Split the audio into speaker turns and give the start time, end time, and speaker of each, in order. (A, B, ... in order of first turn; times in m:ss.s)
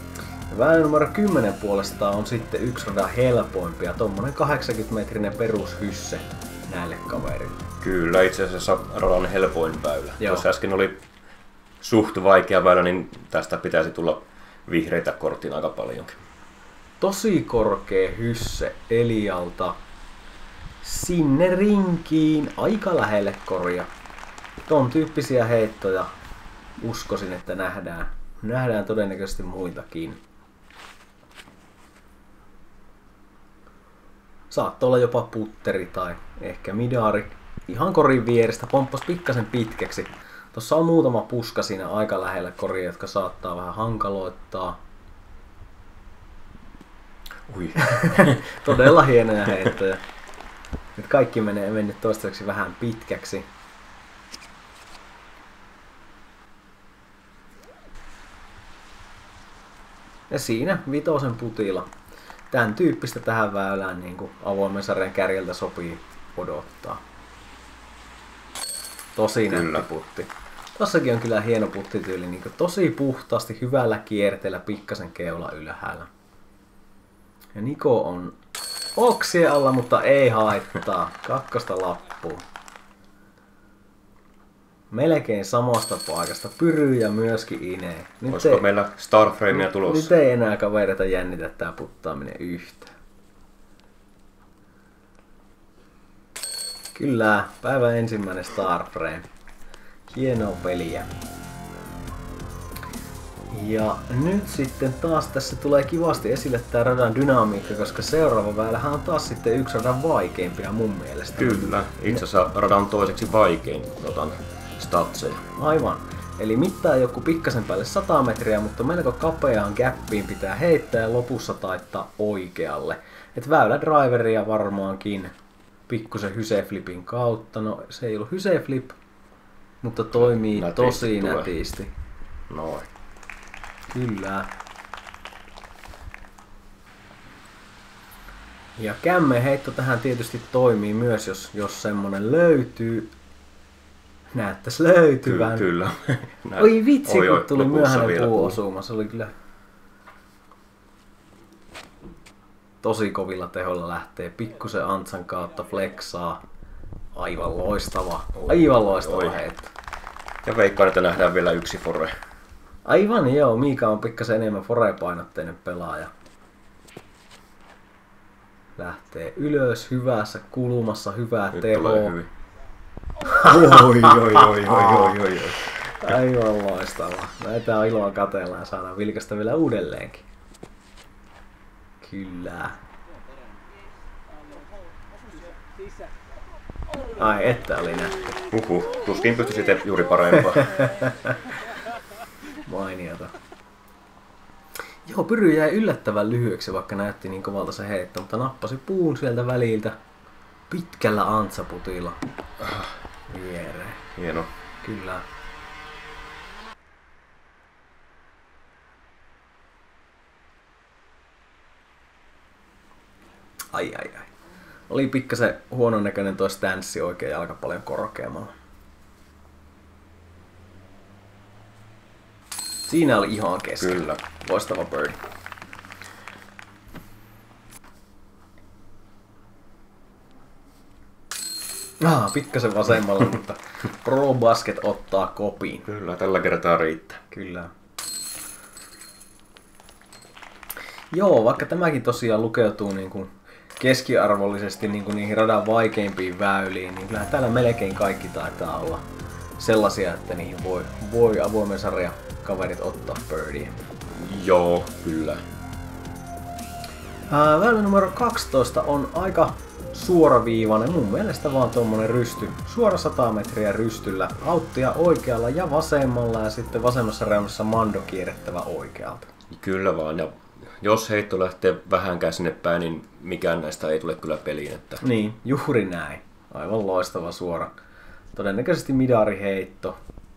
0:00.5-0:07.6 A
0:07.8-0:11.0 B
0:11.8-0:16.2 B
0:17.0-0:19.8 A
0:20.8-0:23.9 A
0:24.7-0:26.1 A
0:26.8-0:30.2 A
0:34.5-0:44.8 A
0:47.5-0:48.8 B
0:47.8-0:50.0 A
0:51.0-0:53.5 A
1:00.3-1:01.9 A
1:02.5-1:07.0 A
1:09.2-1:16.1 A
1:09.5-1:09.9 B
1:17.6-1:18.4 A
1:19.0-1:22.4 A
1:24.9-1:28.6 A
1:28.3-1:30.1 B
1:29.5-1:32.9 A
1:37.0-1:39.3 A
1:40.1-1:41.1 A
1:43.5-1:51.8 A
1:51.4-1:55.4 B
1:55.6-2:05.3 A
2:05.9-2:09.0 A
2:09.8-2:11.9 A
2:10.1-2:11.5 B
2:12.5-2:12.9 B
2:13.9-2:14.5 A
2:18.8-2:23.1 A
2:24.3-2:25.7 A
2:25.2-2:28.6 B
2:26.6-2:29.3 A
2:32.8-2:36.4 A
2:37.2-2:39.7 A
2:38.4-2:39.4 B
2:40.4-2:42.1 B
2:42.9-2:46.1 A
2:48.8-2:52.2 A
2:51.5-2:52.3 B
2:53.3-2:55.8 B
2:53.3-2:54.4 A
2:56.0-3:00.2 A
3:02.0-3:02.8 A
3:07.1-3:08.4 A
3:08.5-3:10.9 B
3:10.6-3:11.6 A
3:12.6-3:13.3 A
3:15.0-3:20.0 A
3:20.7-3:22.2 A
3:22.6-3:22.9 B
3:23.3-3:24.1 A
3:24.2-3:24.5 B
3:24.8-3:25.2 A
3:33.7-3:34.3 A
3:34.9-3:38.5 A
3:42.9-3:45.2 A
3:43.8-3:44.2 B
3:52.0-3:55.9 A
3:55.9-3:57.2 B
3:57.3-3:57.7 A
4:01.1-4:09.0 A
4:09.6-4:13.8 A
4:14.1-4:15.4 B
4:17.3-4:29.3 A
4:29.5-4:35.0 B
4:35.0-4:37.7 A
4:38.3-4:40.0 A